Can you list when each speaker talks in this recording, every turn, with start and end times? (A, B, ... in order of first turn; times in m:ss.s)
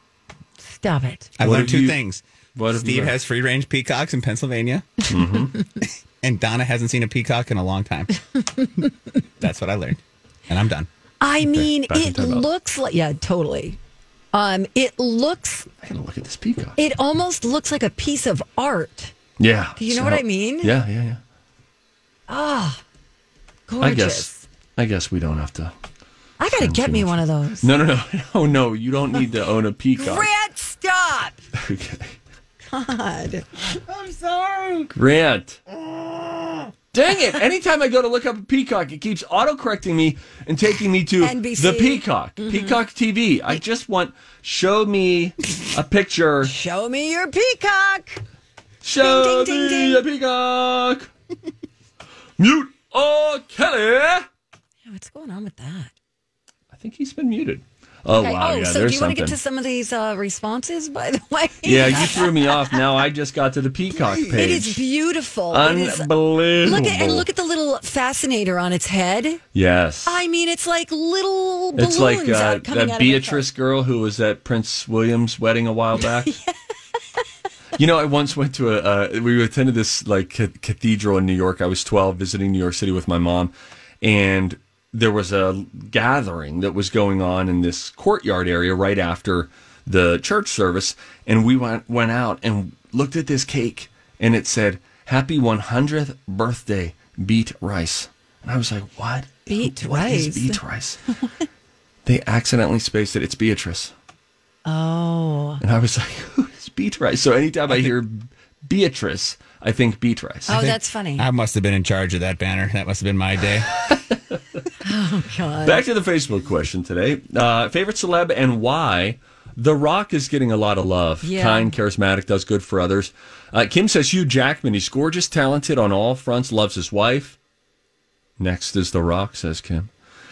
0:00.6-0:01.3 A
0:01.4-0:05.1 B
0:01.4-0:02.0 C
0:02.5-0:03.2 C
0:05.1-0:05.6 C
0:05.8-0:08.1 B
0:09.4-0:10.9 B
0:11.2-0:13.8 A
0:11.4-0:12.4 C
0:14.3-0:15.7 A
0:15.8-0:16.8 C
0:16.8-0:19.1 A
0:19.4-0:21.2 C
0:19.8-0:20.7 A
0:22.3-0:22.8 A
0:23.7-0:24.4 A
0:23.8-0:25.7 C
0:26.4-0:27.7 A
0:26.6-0:30.3 C
0:30.0-0:31.4 A
0:31.5-0:32.2 C
0:32.6-0:33.5 A
0:33.9-0:34.9 B
0:34.9-0:35.6 C
0:36.9-0:46.5 C
0:41.2-0:42.8 A
0:46.4-0:48.2 A
0:48.8-0:51.1 C
0:49.0-0:50.0 A
0:52.4-0:54.3 C
0:54.8-0:55.9 A
0:56.7-0:59.4 C
0:58.1-1:02.8 A
1:01.6-1:04.8 C
1:03.9-1:04.3 B
1:04.3-1:06.1 A
1:05.5-1:07.3 C
1:06.6-1:09.4 A
1:09.5-1:10.2 C
1:10.0-1:13.4 A
1:11.8-1:16.3 C
1:16.2-1:16.5 A
1:17.8-1:41.0 C
1:39.5-1:40.6 A
1:42.0-1:43.9 C
1:44.6-1:45.6 A
1:45.6-1:50.6 C
1:50.5-1:51.2 A
1:50.5-1:53.7 B
1:53.9-1:54.4 C
1:54.8-1:55.8 A
1:55.6-2:07.4 C
2:01.2-2:01.7 A
2:08.4-2:09.9 C